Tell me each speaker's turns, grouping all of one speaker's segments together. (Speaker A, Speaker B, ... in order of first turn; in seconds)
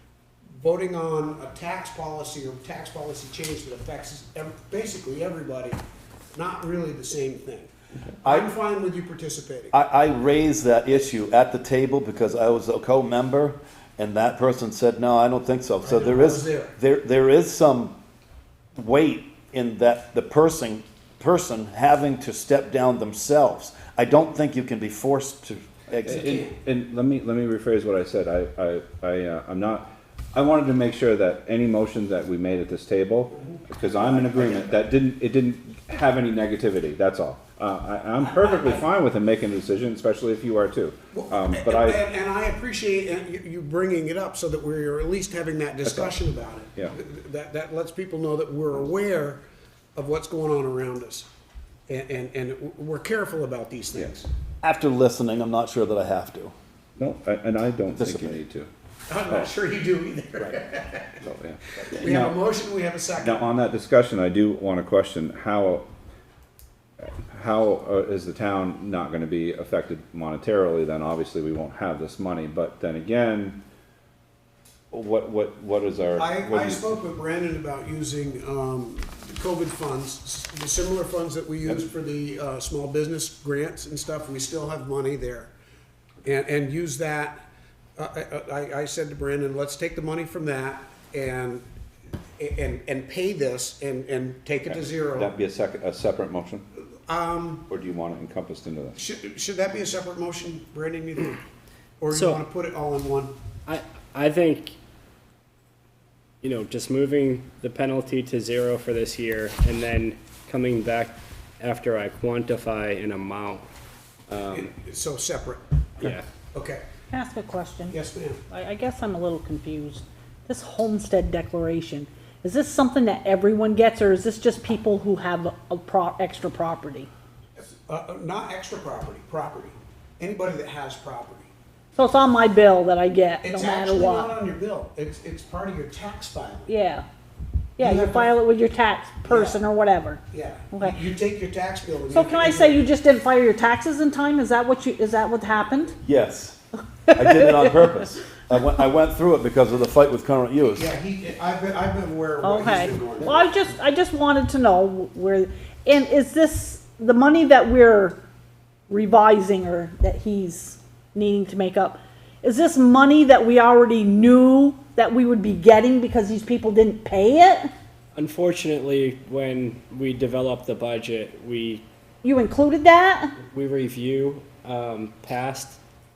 Speaker A: 0.6-5.8, 6.3-9.7, 15.8-16.8, 26.1-26.5, 33.5-34.7, 41.1-49.4, 50.0-51.3, 51.9-54.3, 59.1-61.2, 61.8-63.5, 76.2-85.5, 86.2-87.4, 88.0-91.7, 92.4-95.3, 97.1-97.7, 99.0-101.4, 102.0-103.3, 114.5-115.6, 116.5-116.8, 117.9-118.4, 127.6-131.5, 133.4-136.7, 137.8-138.4, 139.2-139.6, 140.3-142.8, 150.8-153.5
Speaker B: 8.2-8.5, 9.7-17.9, 18.8-26.2, 54.6-56.5, 57.9-58.4, 146.0-146.6, 147.1-150.9
Speaker C: 26.2-41.9, 57.0-58.7, 61.2-61.6, 63.2-65.8, 67.3-73.6, 74.9-76.8, 95.2-96.6, 97.7-98.9
Speaker D: 102.1-102.4, 103.7-104.8, 106.4-113.7, 114.3-114.7, 168.2-171.9, 173.4-175.8
Speaker E: 117.1-118.0, 118.5-127.1, 132.0-134.3, 136.7-137.1, 137.8-141.0, 142.1-146.0, 147.2-147.5, 152.4-158.2, 158.9-167.7, 172.2-173.4